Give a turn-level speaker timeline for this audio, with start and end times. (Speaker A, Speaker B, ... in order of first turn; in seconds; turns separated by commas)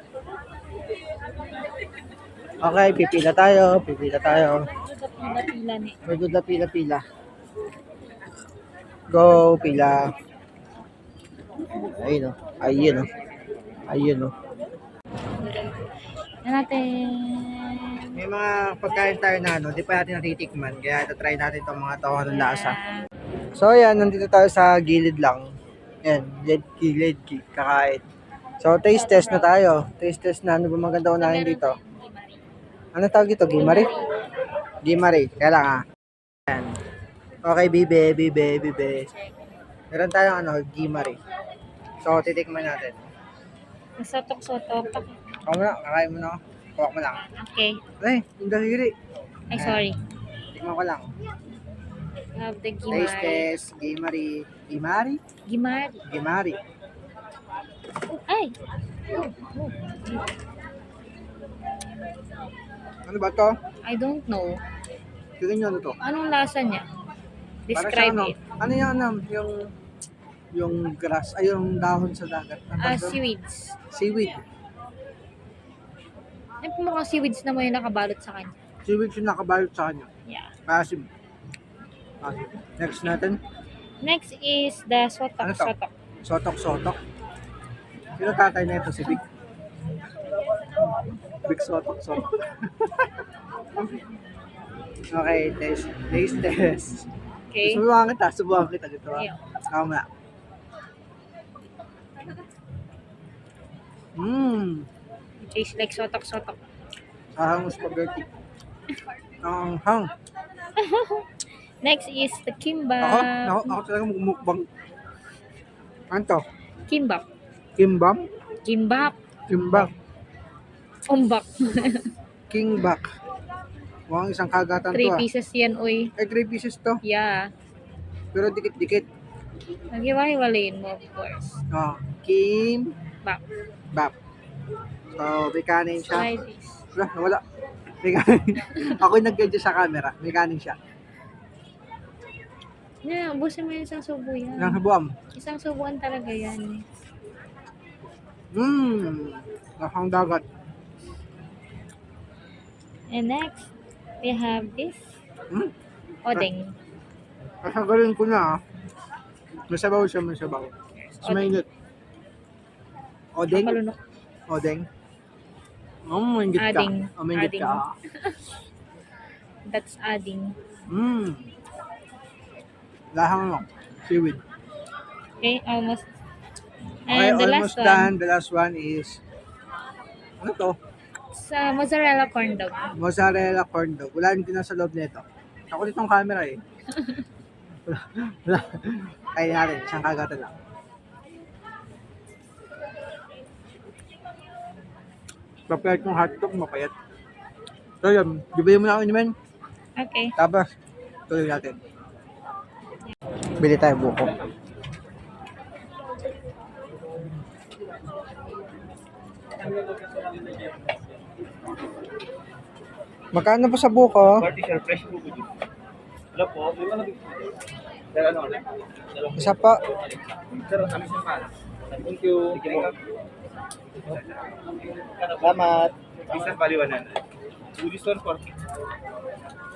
Speaker A: 2.6-4.7, Speaker B: 4.4-6.0, Speaker A: 6.0-7.0, Speaker A: 9.1-10.1, Speaker A: 11.8-13.1, Speaker A: 13.9-14.3, Speaker B: 15.3-15.8, Speaker B: 16.4-18.2, Speaker A: 18.1-22.8, Speaker B: 22.3-23.1, Speaker A: 23.5-25.4, Speaker A: 26.0-28.0, Speaker A: 28.6-31.8, Speaker B: 28.8-29.6, Speaker B: 31.2-32.4, Speaker A: 32.9-33.9, Speaker B: 33.6-34.1, Speaker A: 34.8-35.8, Speaker A: 36.5-36.7, Speaker A: 37.4-39.1, Speaker B: 39.1-39.3, Speaker A: 39.9-41.2, Speaker A: 42.0-43.0, Speaker B: 44.0-45.1, Speaker A: 45.5-47.3, Speaker B: 47.3-47.8, Speaker A: 48.0-48.9, Speaker B: 49.5-50.0, Speaker A: 49.5-49.8, Speaker A: 50.5-51.1, Speaker B: 52.4-53.5, Speaker A: 52.9-55.2, Speaker B: 55.5-56.0, Speaker A: 56.0-56.6, Speaker B: 58.1-58.5, Speaker B: 59.1-60.4, Speaker A: 63.0-63.5, Speaker B: 63.8-64.6, Speaker A: 65.4-66.0, Speaker B: 66.0-66.9, Speaker B: 67.7-68.4, Speaker A: 67.7-69.6, Speaker A: 70.5-73.2, Speaker B: 72.8-73.8, Speaker A: 73.9-74.4, Speaker B: 76.6-78.5, Speaker A: 78.8-80.1, Speaker B: 80.2-80.5, Speaker A: 80.7-81.1, Speaker A: 82.2-83.4, Speaker B: 84.0-85.9, Speaker A: 85.4-85.7, Speaker A: 86.2-87.0, Speaker A: 88.2-89.2, Speaker A: 91.4-93.1, Speaker A: 95.1-97.1, Speaker B: 97.5-97.8, Speaker A: 97.6-100.0, Speaker A: 104.2-104.9, Speaker B: 105.4-106.6, Speaker A: 107.4-108.2, Speaker A: 109.4-110.1, Speaker B: 110.8-113.8, Speaker A: 113.0-114.7, Speaker A: 116.1-116.4, Speaker B: 116.9-117.2, Speaker A: 117.8-118.2, Speaker B: 118.6-119.1, Speaker A: 119.5-119.9, Speaker B: 121.1-122.1, Speaker A: 122.5-123.0, Speaker A: 124.1-125.2, Speaker B: 124.9-126.1, Speaker A: 126.2-127.0, Speaker B: 127.0-127.5, Speaker A: 128.3-129.1, Speaker B: 129.9-131.6, Speaker A: 131.7-132.9, Speaker A: 135.2-136.3, Speaker B: 136.0-136.8, Speaker A: 136.9-137.4, Speaker A: 138.0-140.8, Speaker B: 143.0-144.8, Speaker A: 144.6-145.2, Speaker B: 145.3-146.8, Speaker A: 148.5-150.4, Speaker B: 153.1-155.0, Speaker B: 156.2-156.8, Speaker A: 157.6-158.6, Speaker A: 159.7-160.7, Speaker B: 160.9-161.6, Speaker A: 161.2-161.7, Speaker A: 163.3-163.8, Speaker B: 163.5-164.0, Speaker A: 164.5-164.9, Speaker A: 166.1-167.9, Speaker B: 166.6-168.4, Speaker B: 169.7-170.6, Speaker A: 170.9-171.4, Speaker A: 173.1-174.4, Speaker B: 175.4-176.1, Speaker B: 177.1-178.1, Speaker A: 177.1-179.2, Speaker A: 180.4-180.8, Speaker B: 181.3-182.9, Speaker A: 182.9-186.6, Speaker B: 186.9-187.2, Speaker A: 187.8-190.5, Speaker A: 195.7-196.9, Speaker A: 198.0-199.3, Speaker B: 199.9-200.3, Speaker A: 200.4-200.7, Speaker A: 201.3-201.8, Speaker A: 203.6-204.3, Speaker A: 213.3-214.5, Speaker C: 214.5-215.5, Speaker C: 216.3-217.2, Speaker C: 218.1-218.6, Speaker A: 219.3-219.8, Speaker C: 220.5-222.9, Speaker C: 225.2-227.2, Speaker A: 225.4-225.9, Speaker C: 227.8-228.4